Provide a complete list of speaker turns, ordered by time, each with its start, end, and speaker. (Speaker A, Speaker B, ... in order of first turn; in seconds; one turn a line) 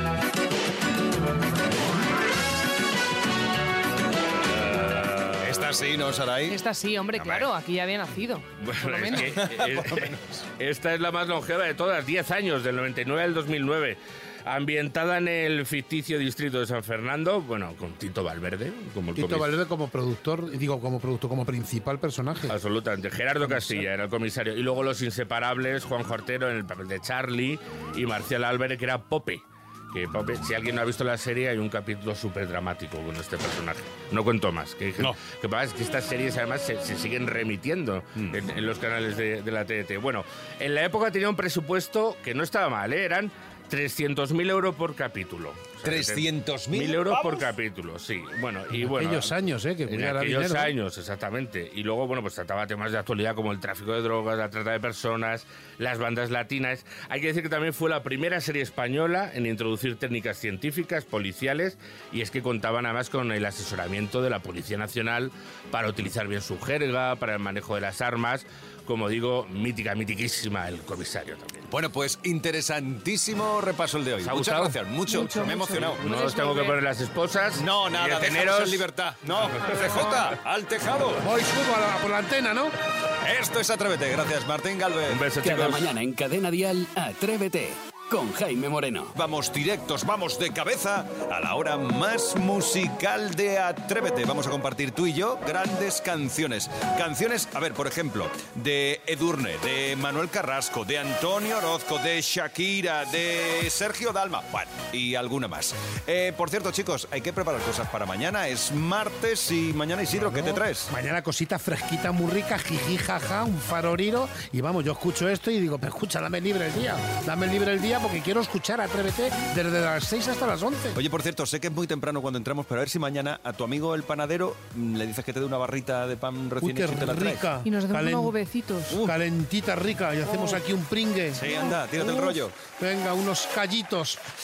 Speaker A: 4.5-5.7
Speaker B: 5.4-6.6
Speaker C: 6.5-9.4
Speaker A: 8.6-19.5
Speaker B: 9.1-10.2
Speaker D: 19.1-22.6
Speaker A: 22.5-49.3
Speaker D: 23.4-23.8
Speaker B: 38.1-38.5
Speaker B: 45.8-47.5
Speaker D: 48.7-50.7
Speaker A: 49.9-71.7
Speaker B: 71.7-76.0
Speaker A: 74.2-74.8
Speaker C: 75.1-76.8
Speaker A: 75.9-79.8
Speaker B: 77.5-81.2
Speaker D: 81.2-82.7
Speaker B: 83.2-85.2
Speaker A: 85.1-85.9
Speaker E: 85.4-89.1
Speaker B: 89.1-110.9
Speaker D: 110.2-121.0
Speaker B: 120.9-127.4
Speaker D: 126.6-128.3
Speaker C: 127.6-129.0
Speaker B: 128.9-129.2
Speaker D: 128.9-134.2
Speaker C: 130.2-130.6
Speaker B: 131.3-132.6